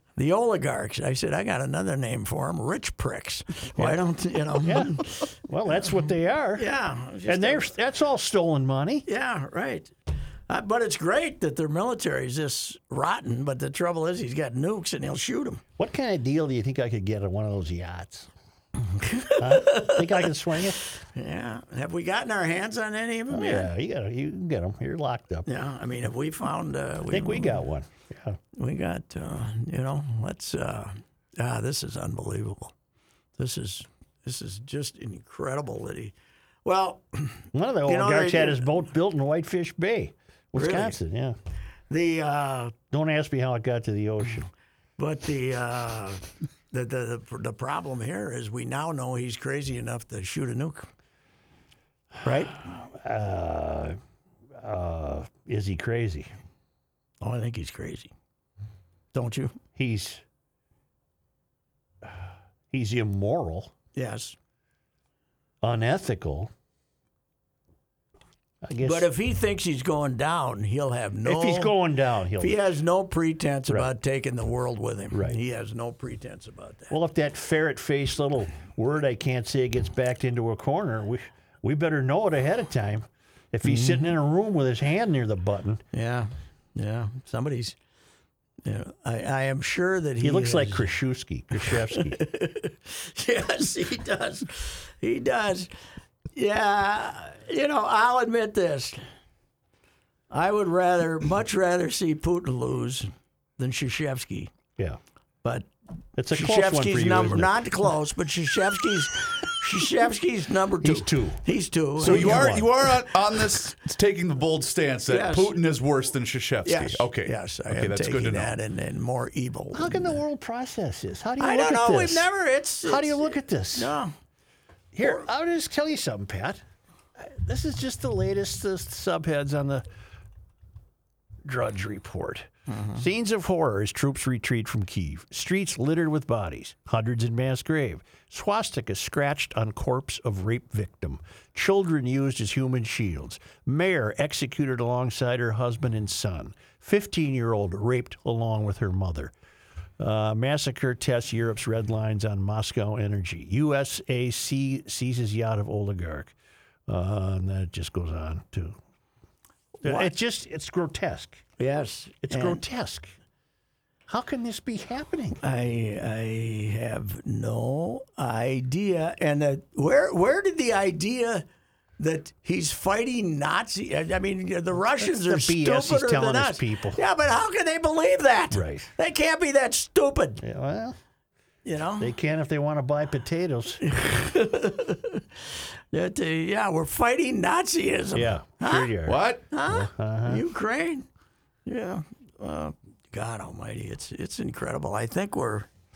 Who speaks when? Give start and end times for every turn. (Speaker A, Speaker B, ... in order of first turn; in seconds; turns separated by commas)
Speaker A: 0.2-5.3, Speaker B: 4.6-6.7, Speaker A: 6.6-7.8, Speaker B: 7.3-9.1, Speaker A: 9.1-9.9, Speaker A: 10.5-15.6, Speaker B: 15.8-18.3, Speaker A: 18.9-23.7, Speaker B: 19.4-20.8, Speaker B: 23.3-25.5, Speaker A: 25.5-27.6, Speaker B: 27.1-28.4, Speaker A: 28.5-32.7, Speaker A: 33.4-36.1, Speaker A: 36.6-38.7, Speaker B: 37.5-41.4, Speaker A: 40.5-41.0, Speaker A: 41.9-42.8, Speaker B: 42.9-44.5, Speaker A: 45.0-50.9, Speaker A: 52.2-52.6, Speaker B: 52.5-54.0, Speaker B: 54.6-56.3, Speaker A: 57.2-58.1, Speaker A: 59.1-59.6, Speaker B: 59.8-60.2, Speaker B: 62.7-63.7, Speaker A: 64.0-64.4, Speaker B: 65.6-66.5, Speaker B: 68.6-69.1, Speaker A: 68.8-71.7, Speaker B: 71.2-72.6, Speaker A: 72.4-76.9, Speaker B: 75.1-75.4, Speaker B: 76.9-85.8, Speaker A: 83.7-84.1, Speaker A: 85.9-87.8, Speaker A: 88.6-90.9, Speaker B: 90.2-92.2, Speaker A: 91.6-95.7, Speaker A: 96.3-99.0, Speaker A: 100.3-104.5, Speaker A: 105.4-105.7, Speaker B: 106.2-107.9, Speaker A: 106.3-112.7, Speaker B: 110.8-111.4, Speaker B: 112.0-112.7, Speaker C: 112.0-118.5, Speaker A: 115.1-115.5, Speaker A: 116.7-120.2, Speaker B: 119.7-122.3, Speaker A: 121.4-124.1, Speaker B: 122.8-124.0, Speaker B: 124.9-126.6, Speaker B: 127.2-129.9, Speaker B: 131.5-149.3, Speaker A: 132.7-133.1, Speaker B: 150.0-156.3, Speaker B: 156.9-158.8, Speaker A: 159.8-160.1, Speaker B: 159.8-161.4, Speaker A: 161.6-162.6, Speaker B: 162.2-163.1, Speaker B: 164.1-165.4, Speaker A: 165.4-171.5, Speaker A: 172.0-180.4, Speaker B: 174.8-177.0, Speaker B: 178.5-178.9, Speaker B: 180.4-181.0, Speaker A: 181.7-182.1, Speaker B: 182.0-183.9, Speaker A: 183.8-185.2, Speaker A: 185.9-191.0, Speaker B: 188.1-190.4, Speaker C: 189.1-189.4, Speaker A: 191.7-195.7